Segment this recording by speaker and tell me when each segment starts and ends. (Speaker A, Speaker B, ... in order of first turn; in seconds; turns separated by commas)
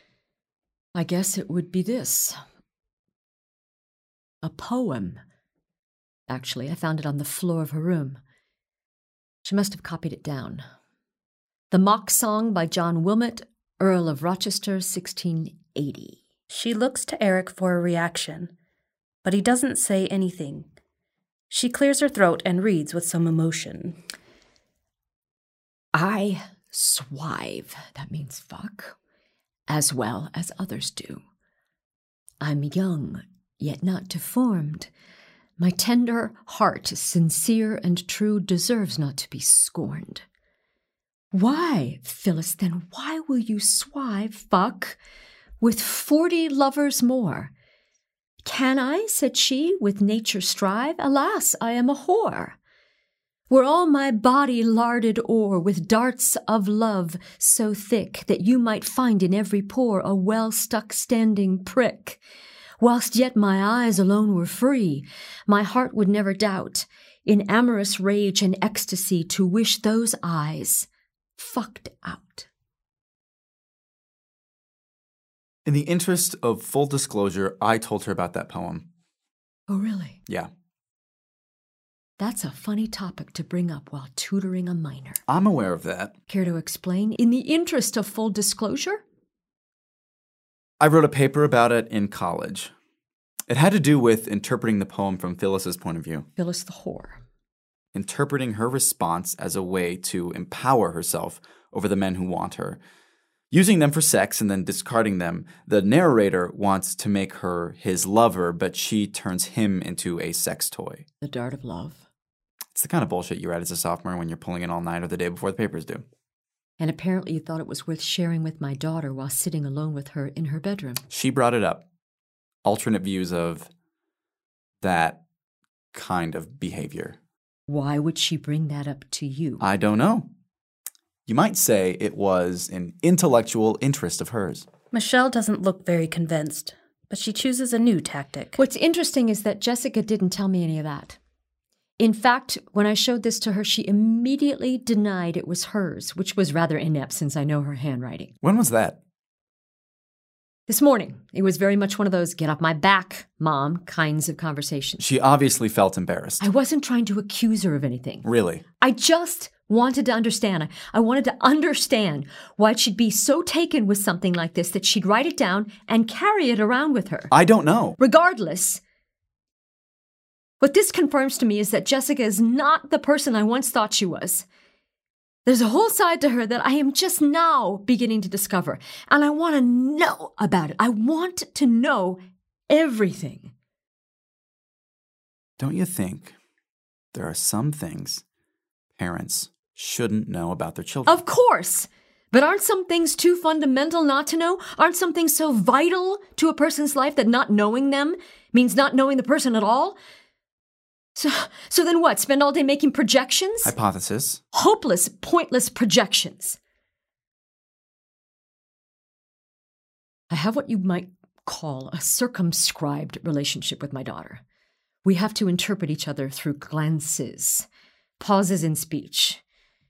Speaker A: 0.9-2.4, Speaker A: 4.4-5.2, Speaker A: 6.3-8.2, Speaker A: 9.4-10.7, Speaker A: 11.7-16.2, Speaker B: 16.5-18.5, Speaker B: 19.2-20.7, Speaker B: 21.5-24.0, Speaker A: 25.9-28.9, Speaker A: 29.7-31.2, Speaker A: 32.4-34.9, Speaker A: 35.6-40.2, Speaker A: 41.3-45.0, Speaker A: 45.6-47.5, Speaker A: 48.4-52.6, Speaker A: 53.5-62.2, Speaker A: 62.8-70.9, Speaker A: 71.4-72.5, Speaker C: 75.7-78.8, Speaker A: 79.7-80.2, Speaker A: 82.2-85.2, Speaker C: 85.3-86.1, Speaker A: 86.3-89.0, Speaker C: 90.8-92.7, Speaker C: 93.5-96.2, Speaker A: 96.4-97.2, Speaker C: 97.9-102.8, Speaker C: 103.5-111.0, Speaker A: 111.2-112.0, Speaker C: 112.7-116.0, Speaker A: 116.8-121.0, Speaker C: 121.1-121.8, Speaker C: 122.7-123.7, Speaker C: 124.8-125.2, Speaker C: 125.9-127.2, Speaker A: 127.7-129.6, Speaker C: 129.6-130.3, Speaker C: 131.3-134.7, Speaker B: 134.9-138.6, Speaker A: 138.6-141.2, Speaker A: 142.0-148.3, Speaker C: 148.4-149.0, Speaker A: 150.7-155.0, Speaker C: 155.0-156.4, Speaker A: 156.4-158.3, Speaker C: 158.2-158.6, Speaker A: 158.8-167.3, Speaker C: 167.3-168.0, Speaker A: 168.0-168.8, Speaker A: 170.6-174.4, Speaker A: 175.5-182.2, Speaker A: 182.7-183.5, Speaker C: 185.6-186.3, Speaker C: 187.1-188.2, Speaker C: 189.0-191.2, Speaker A: 191.1-200.0, Speaker A: 201.2-203.7, Speaker C: 203.6-204.4, Speaker A: 204.5-206.6, Speaker A: 210.3-214.4, Speaker A: 215.1-217.7, Speaker A: 218.2-219.4